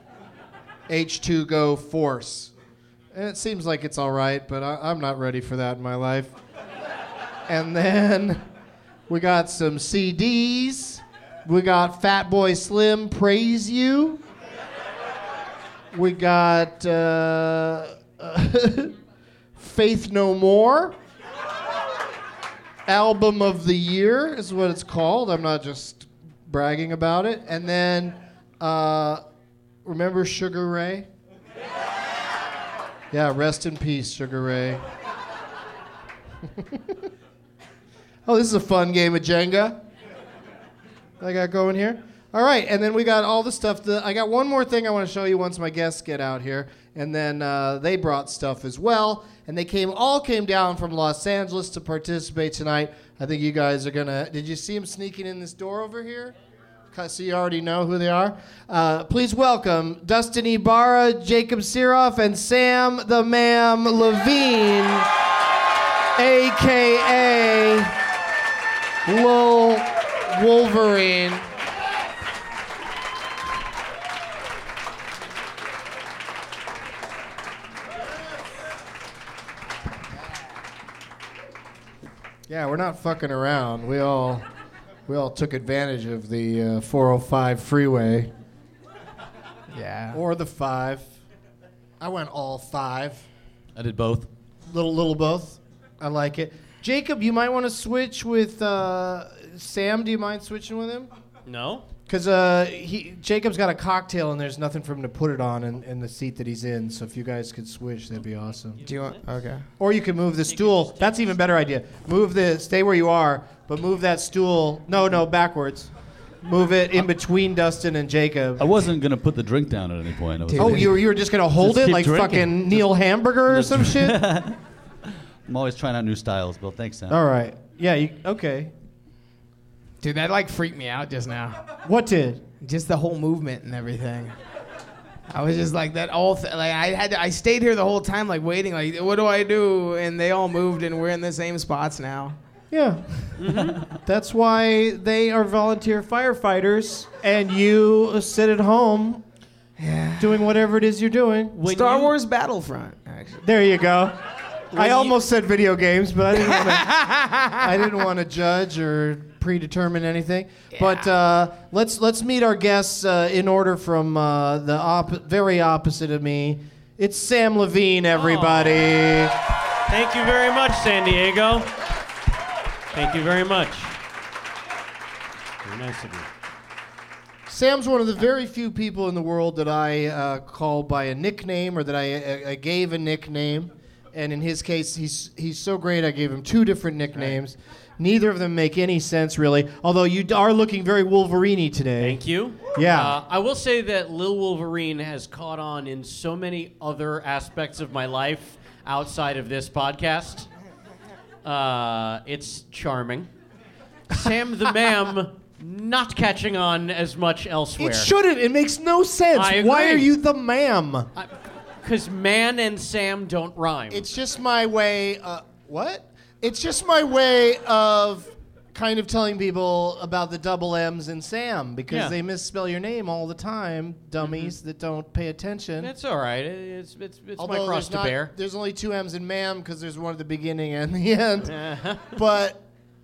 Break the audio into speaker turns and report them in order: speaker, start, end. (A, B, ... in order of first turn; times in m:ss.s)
0:00.9-0:02.5 A
0:03.1-0:06.3 A
0:07.5-0:08.4 A
0:09.1-0:14.2 A
0:15.9-0:18.9 A
0:19.6-0:21.0 A
0:22.8-0:29.2 A
0:29.8-0:31.1 A
0:33.1-0:34.8 A
0:36.6-0:37.0 A
0:38.2-0:39.8 A
0:41.2-0:56.3 A
0:56.9-1:05.1 A
1:06.2-1:07.9 A
1:09.0-1:11.4 A
1:22.5-1:24.4 A
1:25.1-1:28.3 A
1:29.7-1:30.2 B
1:30.1-1:31.1 A
1:32.0-1:33.2 A
1:33.8-1:34.3 C
1:34.7-1:41.1 A
1:41.4-1:41.9 D
1:42.1-1:48.8 A
1:48.8-1:49.6 B
1:48.9-1:49.2 D
1:49.8-1:55.9 A
1:50.5-1:51.4 D
1:56.4-1:58.6 A
1:58.6-2:01.0 C
2:00.5-2:00.8 B
2:00.6-2:04.2 A
2:01.6-2:02.9 C
2:03.5-2:04.6 C
2:05.4-2:07.2 C
2:07.1-2:08.7 A
2:10.0-2:11.6 B
2:11.8-2:12.4 A
2:12.6-2:14.3 B
2:15.3-2:22.4 B
2:22.7-2:23.3 A
2:23.4-2:23.8 D
2:24.0-2:29.2 A
2:29.8-2:30.3 B
2:30.2-2:31.6 A
2:31.6-2:32.1 D
2:31.6-2:33.4 B
2:33.4-2:34.2 A
2:34.7-2:37.0 A
2:34.7-2:35.1 D
2:36.4-2:37.6 B
2:37.6-2:49.4 A
2:48.2-2:48.9 D
2:49.9-2:51.7 D
2:52.9-2:54.0 D
2:55.6-2:56.3 D
2:57.5-3:12.2 A
3:12.0-3:20.5 D
3:12.7-3:13.2 A
3:21.4-3:23.3 D
3:24.1-3:28.1 D
3:27.8-3:31.1 A
3:29.3-3:30.1 D
3:31.2-3:34.1 D
3:33.9-3:45.9 A
3:41.9-3:42.1 D
3:44.2-3:44.5 D
3:45.8-3:48.3 D
3:47.4-3:51.6 A
3:51.4-3:52.2 D
3:52.1-3:52.6 A